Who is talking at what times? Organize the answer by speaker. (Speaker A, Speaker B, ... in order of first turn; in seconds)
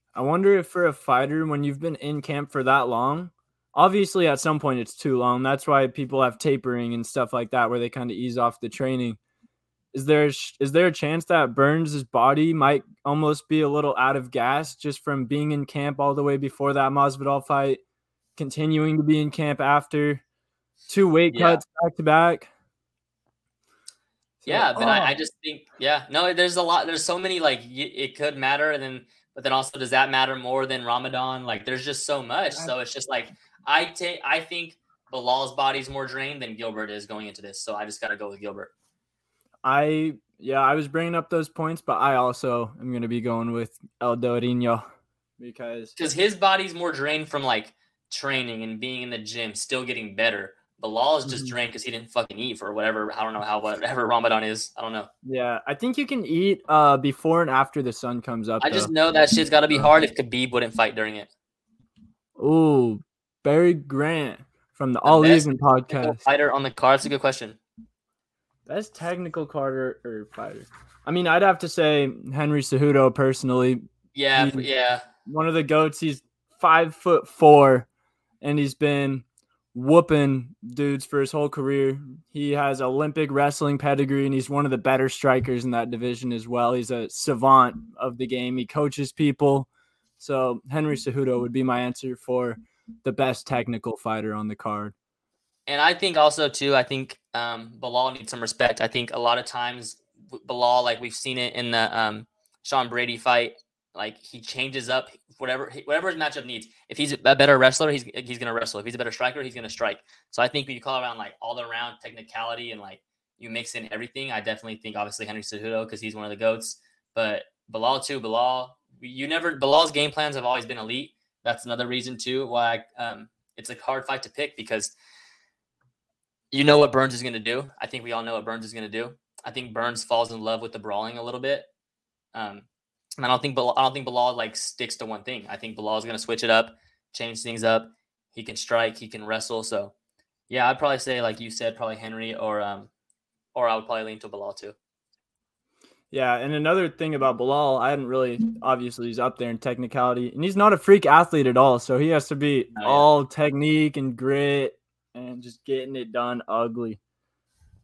Speaker A: 0.1-9.2, 9.9-17.8, 18.4-20.2, 20.9-22.5, 24.4-25.1, 39.6-44.9, 45.4-45.9, 51.2-51.5, 55.2-58.9, 62.4-66.2, 68.7-73.8, 74.3-74.7, 75.3-77.9, 78.4-89.7, 90.2-95.0, 146.1-157.0
Speaker B: 21.3-21.6, 24.5-38.7, 46.0-55.1, 58.6-61.3, 65.0-67.6, 74.2-75.1, 95.7-124.9, 126.5-131.7, 132.3-132.7, 133.2-139.9, 140.5-142.9, 143.5-144.8, 152.8-153.1